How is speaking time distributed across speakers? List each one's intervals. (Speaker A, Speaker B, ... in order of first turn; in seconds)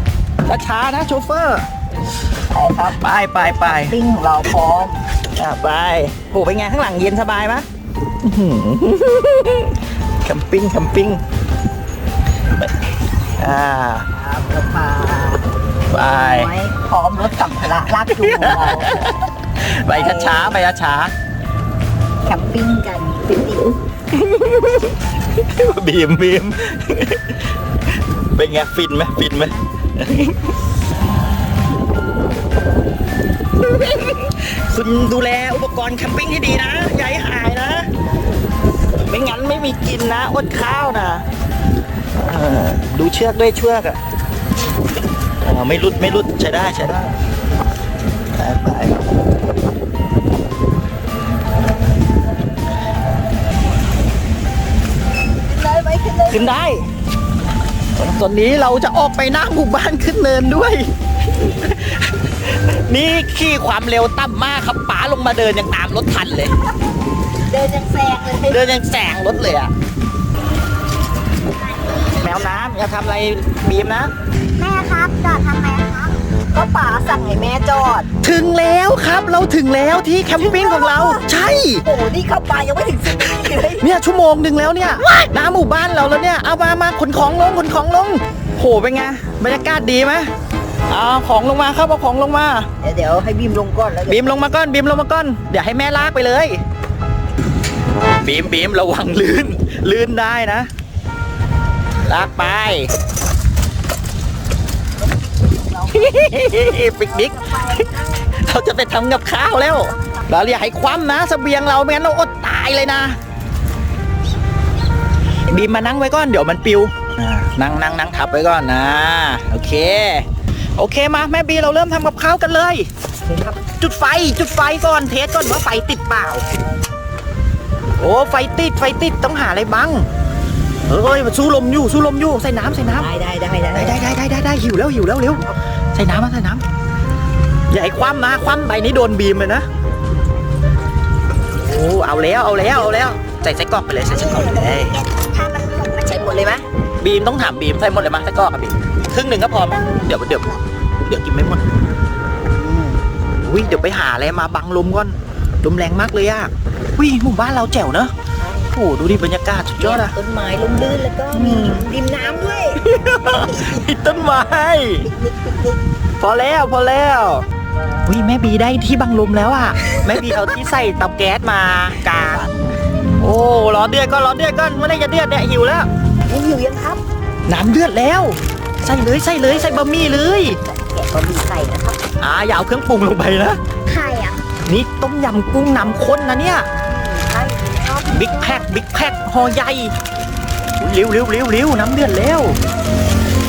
Speaker A: 0.5-1.6, 2.9-3.9, 5.3-7.7, 8.2-11.2, 13.4-14.1, 15.9-16.5, 18.1-21.1, 24.1-27.4, 28.3-30.5, 33.6-37.9, 39.1-41.2, 42.2-44.0, 45.4-47.1, 48.4-48.9, 56.3-56.9, 58.0-66.5, 68.5-69.7, 72.1-74.1, 78.2-81.8, 83.8-90.3, 90.9-92.7, 94.1-96.6, 98.2-100.7, 102.0-102.9, 105.9-113.2, 115.5-122.9, 123.7-126.5, 128.0-130.1, 130.9-133.1, 133.7-136.6, 137.7-139.7, 141.5-145.0, 147.0-151.6, 153.4-158.1, 158.7-160.2, 161.3-161.8, 162.7-165.1, 166.2-167.4, 168.1-172.5, 173.2-175.9, 177.5-180.6, 182.2-183.6, 184.6-186.7, 188.1-189.9, 190.8-192.6
Speaker B: 2.5-5.0, 14.1-19.0, 19.9-20.5, 22.2-23.8, 55.5-56.5, 67.5-68.6, 74.6-78.1, 80.4-83.8, 92.8-94.5, 105.8-106.0, 107.4-107.9, 132.9-134.0, 145.3-146.7, 152.5-153.0, 158.4-158.7, 159.8-163.8, 165.0-165.8, 172.3-172.6, 176.3-177.0, 179.4-182.0, 186.8-188.6
Speaker C: 75.1-76.0, 144.1-146.0, 183.8-184.4